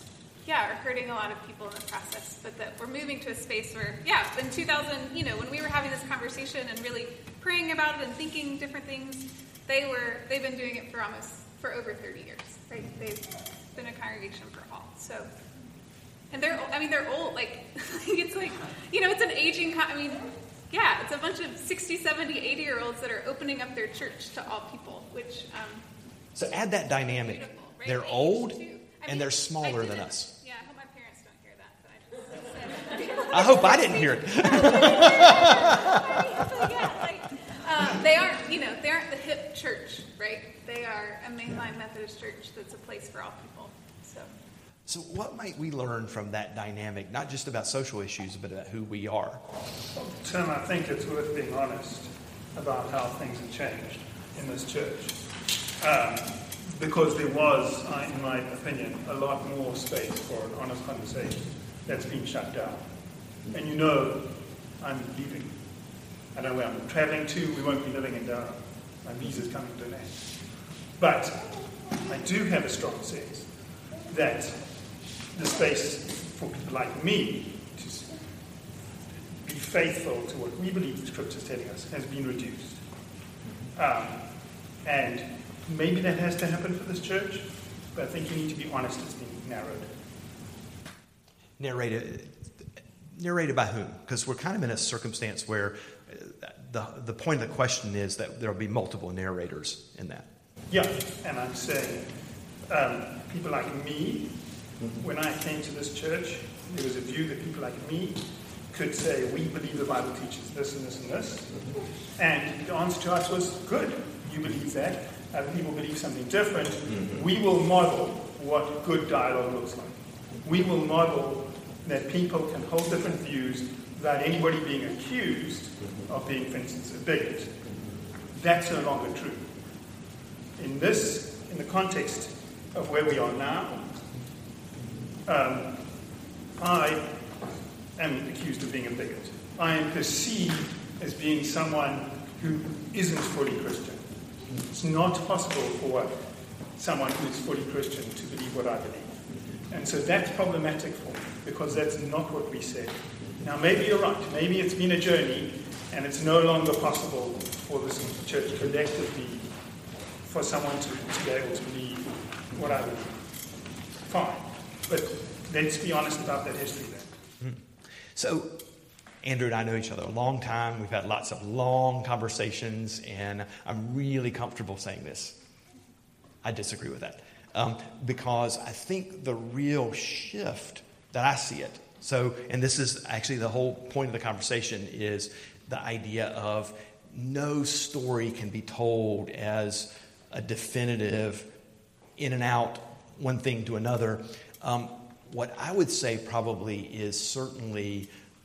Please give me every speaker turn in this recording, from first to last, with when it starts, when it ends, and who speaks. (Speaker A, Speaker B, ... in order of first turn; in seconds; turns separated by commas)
Speaker A: 0.4-15.3, Speaker A: 16.3-25.8, Speaker B: 26.4-30.3, Speaker A: 27.1-44.3, Speaker B: 33.3-36.9, Speaker B: 44.9-49.4, Speaker C: 50.0-55.2, Speaker C: 55.8-62.9, Speaker C: 63.5-64.3, Speaker C: 64.8-65.5, Speaker C: 66.3-70.2, Speaker C: 71.0-71.4, Speaker C: 72.0-73.5, Speaker C: 74.1-74.6, Speaker C: 75.3-78.1, Speaker C: 79.4-82.8, Speaker C: 83.8-84.2, Speaker C: 84.8-89.9, Speaker B: 91.6-92.3, Speaker B: 93.2-100.3, Speaker C: 100.7-102.1, Speaker C: 102.7-104.3, Speaker C: 105.0-111.5, Speaker C: 112.2-127.5, Speaker C: 128.3-129.5, Speaker C: 130.6-133.9, Speaker C: 135.3-135.7, Speaker C: 136.6-137.1, Speaker C: 138.0-144.0, Speaker C: 144.7-146.1, Speaker C: 146.8-149.2, Speaker C: 149.7-159.5, Speaker C: 160.2-163.2, Speaker C: 164.1-167.1, Speaker B: 168.2-168.5, Speaker B: 169.2-175.3, Speaker B: 176.4-191.5, Speaker B: 192.2-198.1